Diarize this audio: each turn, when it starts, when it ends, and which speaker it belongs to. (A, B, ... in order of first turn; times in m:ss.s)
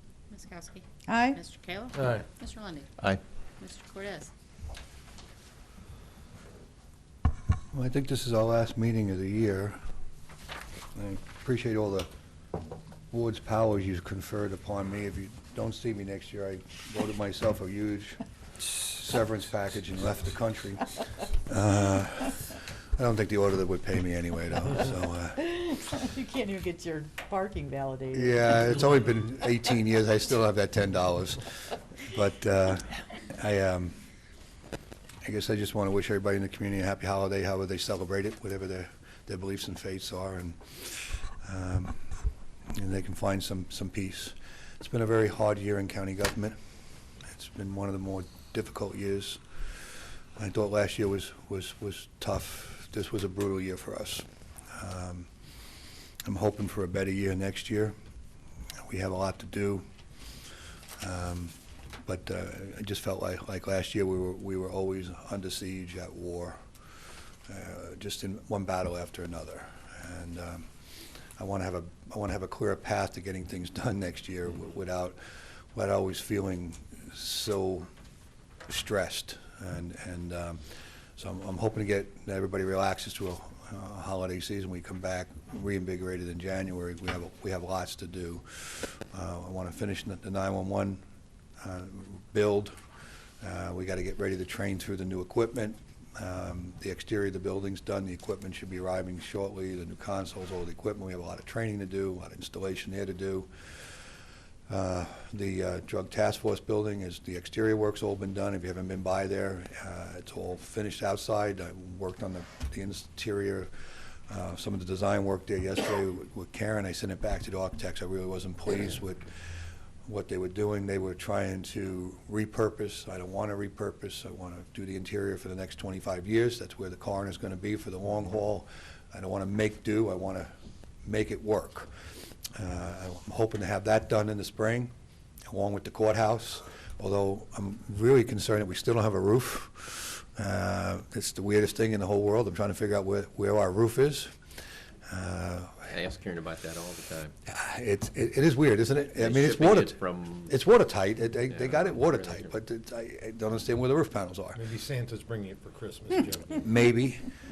0:00.3-0:02.9 A
0:01.1-0:01.4 B
0:01.9-0:02.2 C
0:03.6-0:04.3 A
0:07.7-0:09.8 D
0:10.9-0:12.1 D
0:13.1-0:25.9 D
0:26.0-0:28.4 B
0:28.1-0:34.0 D
0:35.2-0:42.0 D
0:42.7-0:46.6 D
0:47.2-0:49.4 D
0:50.4-0:55.3 D
0:56.2-0:57.9 D
0:58.8-0:59.8 D
1:01.0-1:06.6 D
1:07.4-1:10.7 D
1:11.4-1:15.2 D
1:15.7-1:17.9 D
1:18.7-1:20.6 D
1:21.2-1:31.0 D
1:31.6-1:32.7 D
1:33.4-1:43.9 D
1:44.7-1:53.7 D
1:54.3-1:59.4 D
2:00.0-2:10.5 D
2:11.0-2:11.9 D
2:12.6-2:14.9 D
2:15.5-2:24.3 D
2:25.1-2:25.9 D
2:25.8-2:27.3 E
2:27.4-2:34.6 D
2:29.2-2:30.5 E
2:31.5-2:32.5 E
2:34.5-2:36.6 C
2:36.6-2:37.2 D